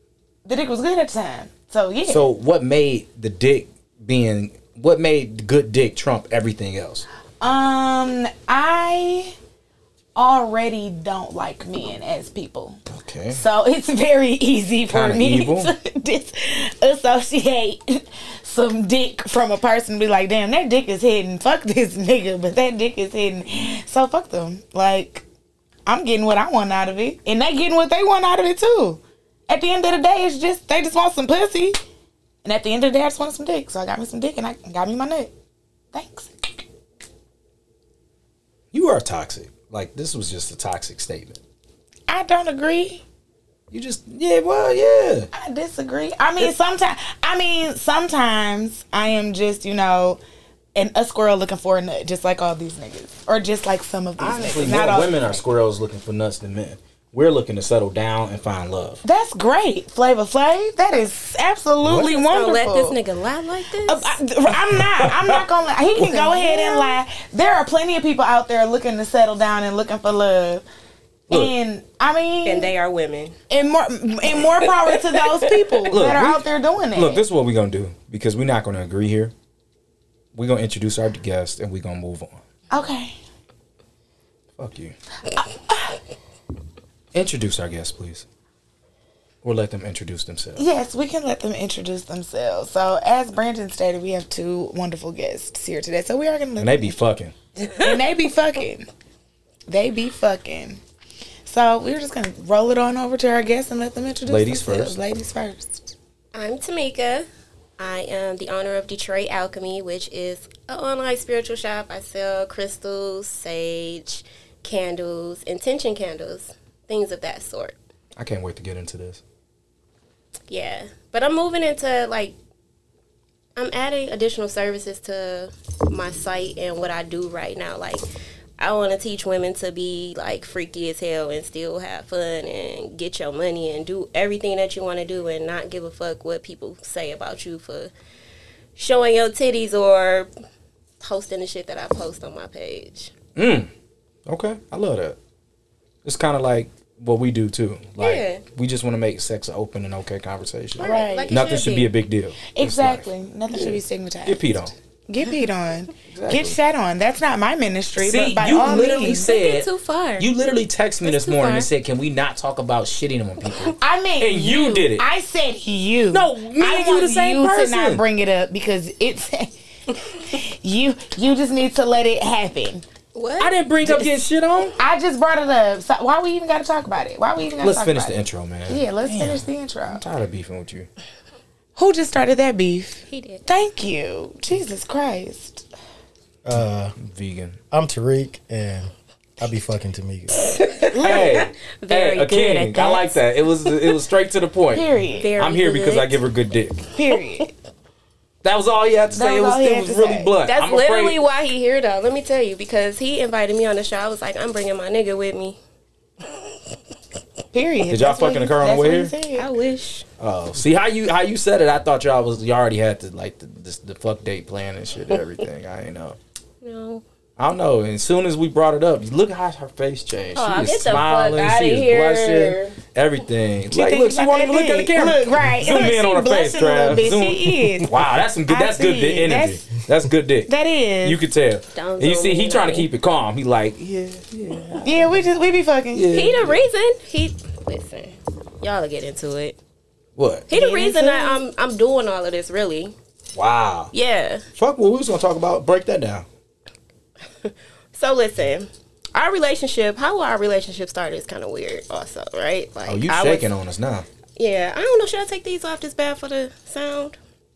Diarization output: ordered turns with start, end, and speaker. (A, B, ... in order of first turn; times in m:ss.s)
0:00.4-0:02.3 A
0:02.1-0:07.1 B
0:07.4-0:09.3 A
0:10.2-0:12.8 A
0:12.9-0:13.4 B
0:13.3-0:25.2 A
0:14.9-0:15.7 B
0:25.8-0:31.8 A
0:32.4-0:35.3 A
0:35.9-0:36.6 A
0:38.7-0:41.4 B
0:42.1-0:43.0 A
0:43.7-0:45.3 B
0:45.3-0:50.2 A
0:50.8-0:55.4 A
0:54.2-0:59.0 B
0:59.0-1:03.0 A
1:02.1-1:04.2 C
1:03.9-1:10.6 A
1:04.8-1:05.3 B
1:06.0-1:06.7 B
1:11.3-1:12.7 A
1:12.4-1:13.3 C
1:13.5-1:17.2 A
1:15.9-1:16.4 B
1:16.9-1:19.3 B
1:20.3-1:22.4 B
1:22.7-1:23.2 A
1:24.6-1:24.9 B
1:25.3-1:26.0 A
1:27.1-1:28.2 B
1:29.4-1:30.6 B
1:30.6-1:37.0 A
1:36.6-1:37.3 B
1:37.7-1:38.9 A
1:39.7-1:40.8 A
1:41.4-1:45.8 A
1:44.2-1:45.0 B
1:46.3-1:47.3 C
1:47.8-1:57.8 C
1:58.2-1:59.2 B
2:00.5-2:02.3 C
2:03.6-2:08.0 C
2:08.6-2:17.9 C
2:18.8-2:20.3 C
2:21.0-2:23.1 C
2:23.3-2:23.7 B
2:24.2-2:25.2 B
2:26.0-2:34.7 B
2:28.0-2:28.4 C
2:30.8-2:31.9 C
2:30.8-2:31.3 A
2:32.5-2:34.4 A
2:35.1-2:39.3 A
2:36.1-2:36.6 B
2:38.0-2:39.7 B
2:38.5-2:40.3 C
2:40.2-2:45.0 B
2:41.0-2:41.7 C
2:43.8-2:49.5 A
2:46.1-2:48.0 B
2:50.0-2:52.8 A
2:53.1-2:53.6 C
2:53.4-2:54.8 B
2:54.8-2:58.2 A
2:57.6-3:00.9 B
2:58.7-3:00.0 A
3:01.8-3:05.6 A
3:03.1-3:03.4 C
3:06.4-3:06.9 D
3:07.0-3:07.6 B
3:07.7-3:10.4 D
3:10.6-3:14.0 C
3:10.9-3:11.4 A
3:11.0-3:16.8 B
3:14.7-3:15.3 A
3:15.2-3:16.2 C
3:16.9-3:17.5 A
3:18.4-3:21.2 B
3:19.1-3:20.3 A
3:20.4-3:25.6 C
3:27.5-3:29.4 A
3:27.9-3:29.1 B
3:29.3-3:30.1 C
3:30.2-3:36.2 B
3:36.6-3:37.0 C
3:37.4-3:50.5 B
3:40.3-3:42.8 C
3:43.7-3:49.7 A
3:50.5-3:51.2 A
3:51.0-3:55.2 B
3:51.8-3:52.9 C
3:54.8-3:56.1 A
3:55.9-3:56.6 B
3:56.1-3:59.6 C
4:00.2-4:00.5 B
4:00.5-4:02.9 C
4:00.5-4:01.4 A
4:03.3-4:03.9 B
4:03.9-4:04.4 C
4:04.6-4:06.2 B
4:07.4-4:13.5 C
4:12.9-4:14.1 B
4:14.4-4:17.2 C